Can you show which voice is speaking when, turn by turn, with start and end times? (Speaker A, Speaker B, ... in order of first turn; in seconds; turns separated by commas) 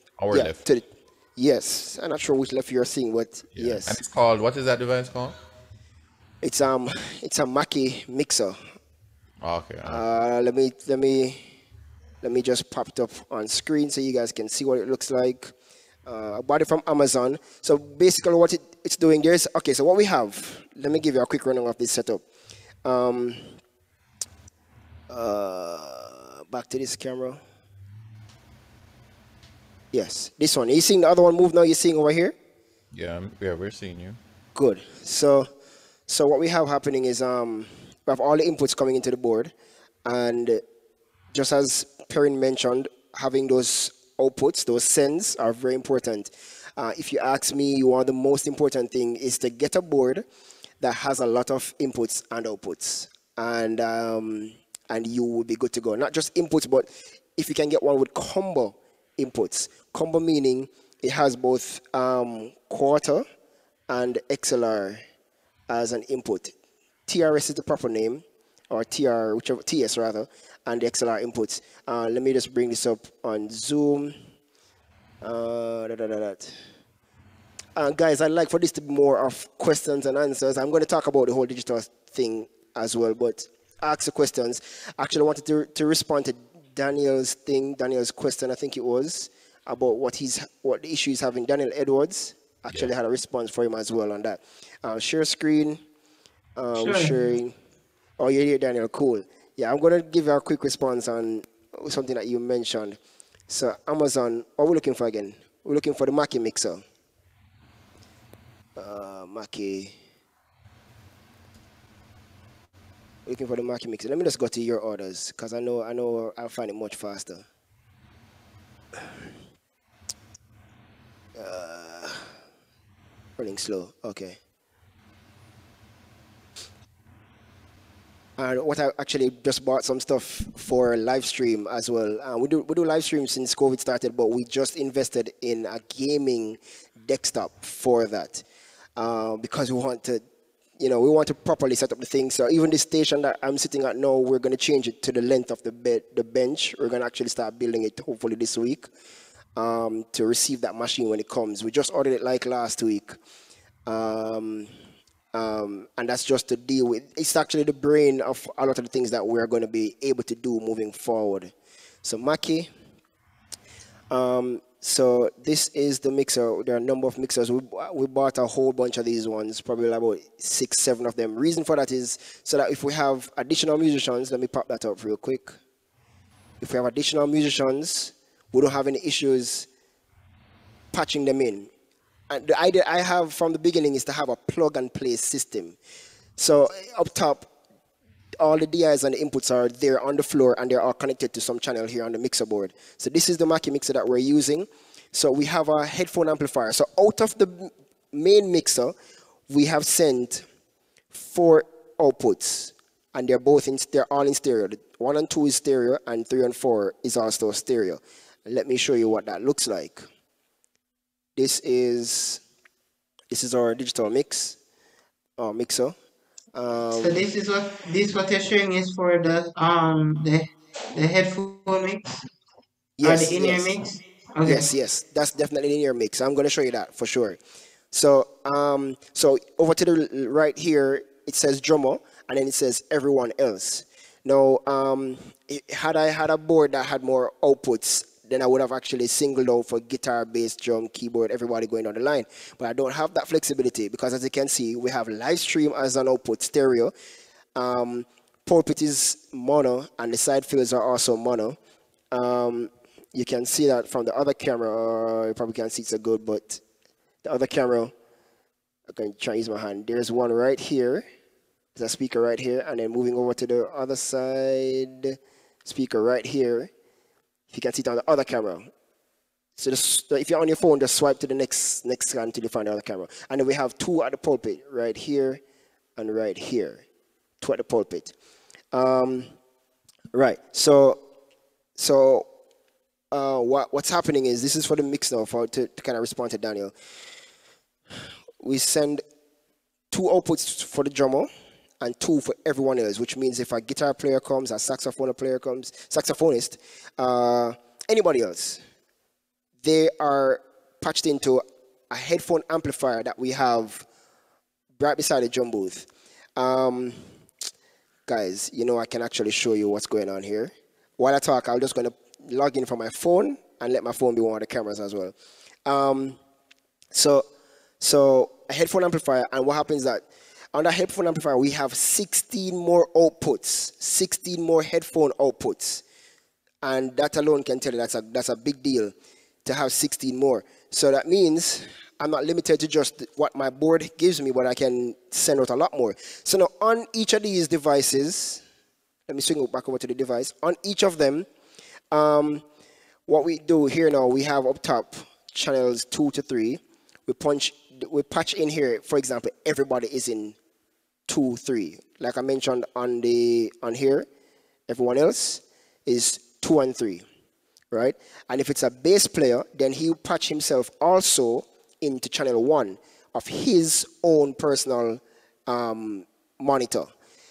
Speaker A: 0.2-0.6, Speaker B: 0.3-0.8, Speaker B: 1.4-4.0, Speaker A: 3.5-5.3, Speaker B: 6.4-8.6, Speaker A: 9.4-10.0, Speaker B: 9.8-11.4, Speaker B: 12.2-15.5, Speaker B: 16.1-22.2, Speaker B: 22.8-23.6, Speaker B: 25.1-27.4, Speaker B: 29.9-32.3, Speaker A: 32.9-34.2, Speaker B: 34.5-35.5, Speaker B: 36.1-39.5, Speaker B: 40.0-40.6, Speaker B: 41.3-50.2, Speaker B: 50.8-63.2, Speaker B: 63.9-65.0, Speaker B: 65.7-66.5, Speaker B: 67.1-74.1, Speaker B: 75.2-76.5, Speaker B: 77.8-95.8, Speaker B: 96.5-97.5, Speaker C: 96.7-97.1, Speaker B: 98.2-103.0, Speaker B: 103.5-106.8, Speaker B: 108.8-109.9, Speaker B: 113.2-117.4, Speaker B: 121.3-122.3, Speaker B: 123.4-124.4, Speaker B: 128.4-138.4, Speaker B: 139.0-140.2, Speaker B: 140.8-148.9, Speaker B: 149.6-153.1, Speaker B: 153.9-154.7, Speaker B: 155.3-161.5, Speaker B: 162.0-162.7, Speaker B: 164.1-175.5, Speaker B: 176.6-179.7, Speaker B: 180.9-181.7, Speaker B: 182.3-185.8, Speaker B: 186.4-187.5, Speaker B: 188.4-198.9, Speaker B: 199.5-200.4, Speaker B: 201.1-210.0, Speaker B: 211.4-212.4, Speaker B: 213.3-214.6, Speaker B: 215.4-215.9, Speaker B: 216.5-217.3, Speaker C: 217.0-222.2, Speaker B: 223.0-223.6, Speaker C: 223.0-224.7, Speaker B: 224.4-227.4, Speaker B: 227.9-246.9, Speaker B: 247.6-251.6, Speaker B: 252.1-256.6, Speaker B: 257.2-257.9, Speaker B: 258.9-261.0, Speaker B: 261.8-266.7, Speaker B: 267.5-268.7, Speaker B: 269.6-275.4, Speaker B: 276.0-276.8, Speaker B: 277.4-278.1, Speaker B: 278.7-279.3, Speaker B: 280.1-281.0, Speaker B: 281.8-282.2, Speaker B: 283.1-286.7, Speaker B: 288.4-289.0, Speaker B: 289.9-291.3, Speaker B: 291.8-298.6, Speaker B: 299.6-303.8, Speaker B: 304.8-307.0, Speaker B: 308.1-315.1, Speaker B: 315.6-316.2, Speaker B: 316.9-317.2, Speaker B: 317.8-325.8, Speaker B: 326.6-328.9, Speaker B: 329.4-338.4, Speaker B: 339.1-341.2, Speaker B: 341.9-342.4, Speaker B: 343.1-350.4, Speaker B: 351.1-354.1, Speaker B: 354.7-357.0, Speaker B: 357.7-366.9